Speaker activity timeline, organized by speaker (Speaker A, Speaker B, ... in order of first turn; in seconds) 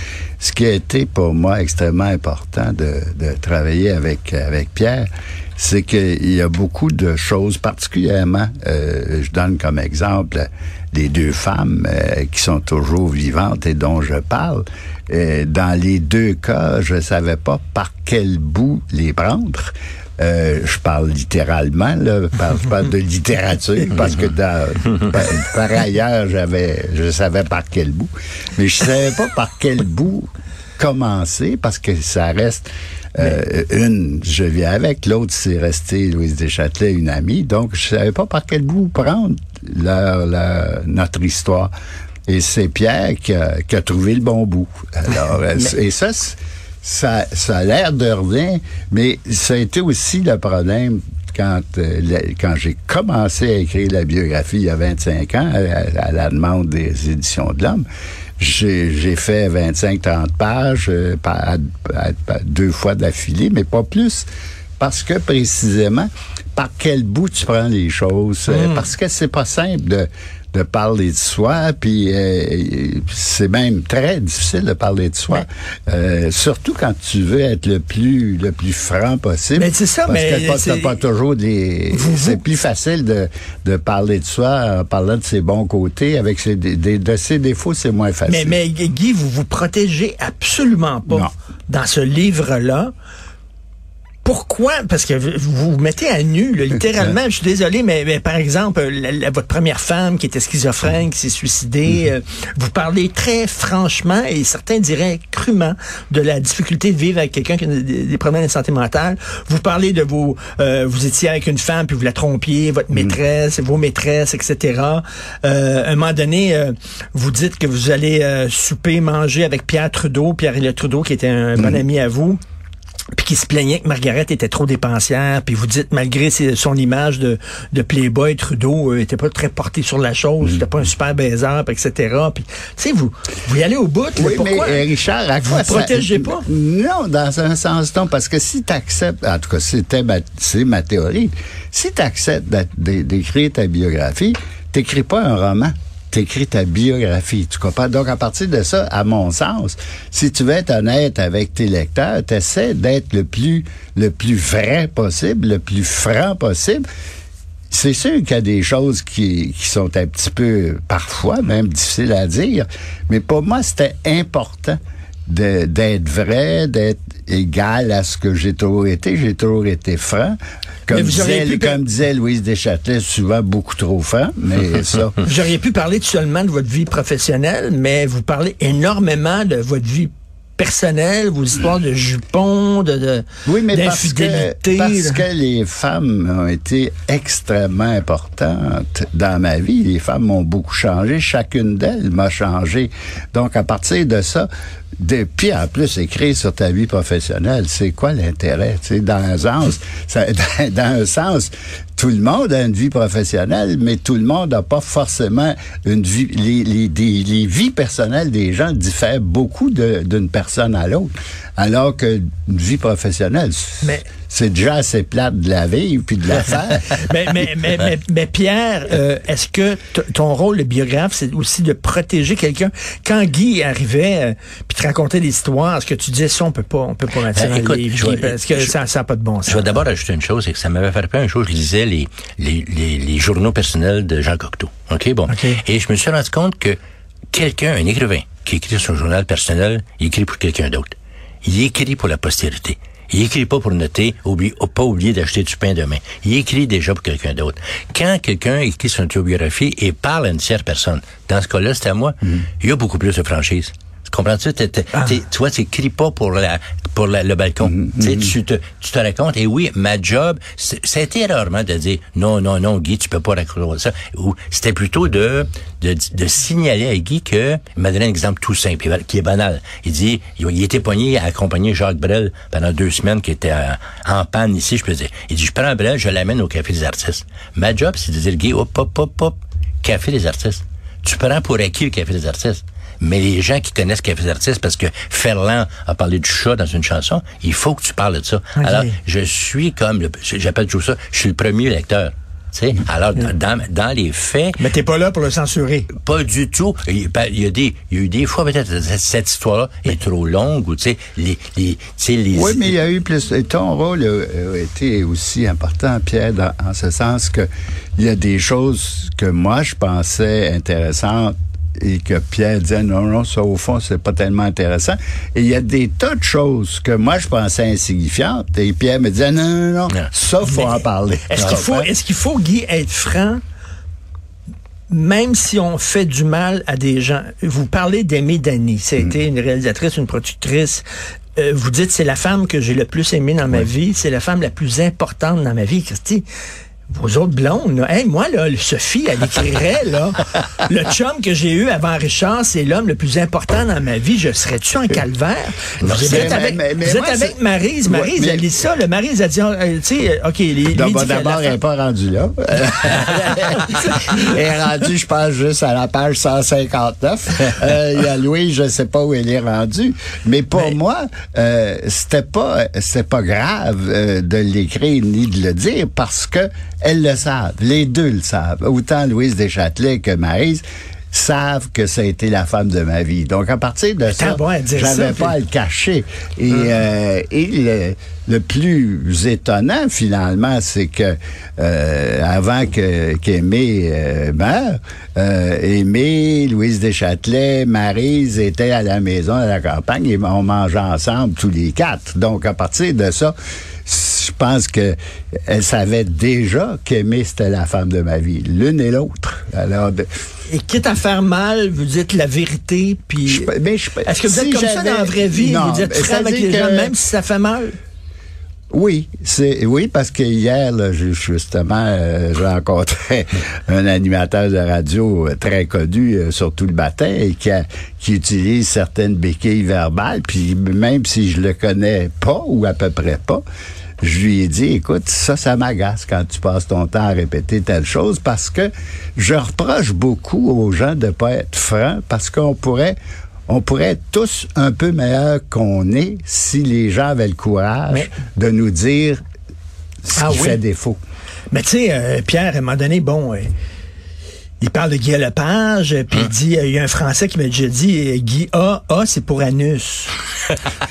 Speaker A: 0.4-41.7, 42.3-57.8, 58.4-64.3, 64.8-88.5, 121.6-121.8, 134.2-156.8, 157.7-175.2, 183.4-216.9, 257.7-258.3, 302.3-321.9, 346.0-348.4, 350.7-393.3, 393.9-394.9, 395.5-400.1, 403.2-406.9, 408.7-423.4, 424.0-433.0, 433.5-439.2, 440.0-441.0
Speaker B: 68.5-68.8, 79.5-81.0, 81.9-82.4, 88.3-92.9, 94.2-122.4, 123.2-134.8, 135.4-136.4, 170.9-171.8, 175.2-185.2, 216.9-229.8, 235.3-235.6, 288.6-288.9, 294.6-295.9, 320.5-320.8, 321.3-323.4, 324.9-330.8, 331.4-336.2, 336.9-351.5, 374.1-375.3, 400.5-403.5, 404.0-407.7, 440.1-440.6, 441.5-443.5, 444.6-450.1
Speaker C: 227.3-228.7, 229.5-236.8, 237.3-294.6, 296.0-302.7, 345.8-346.4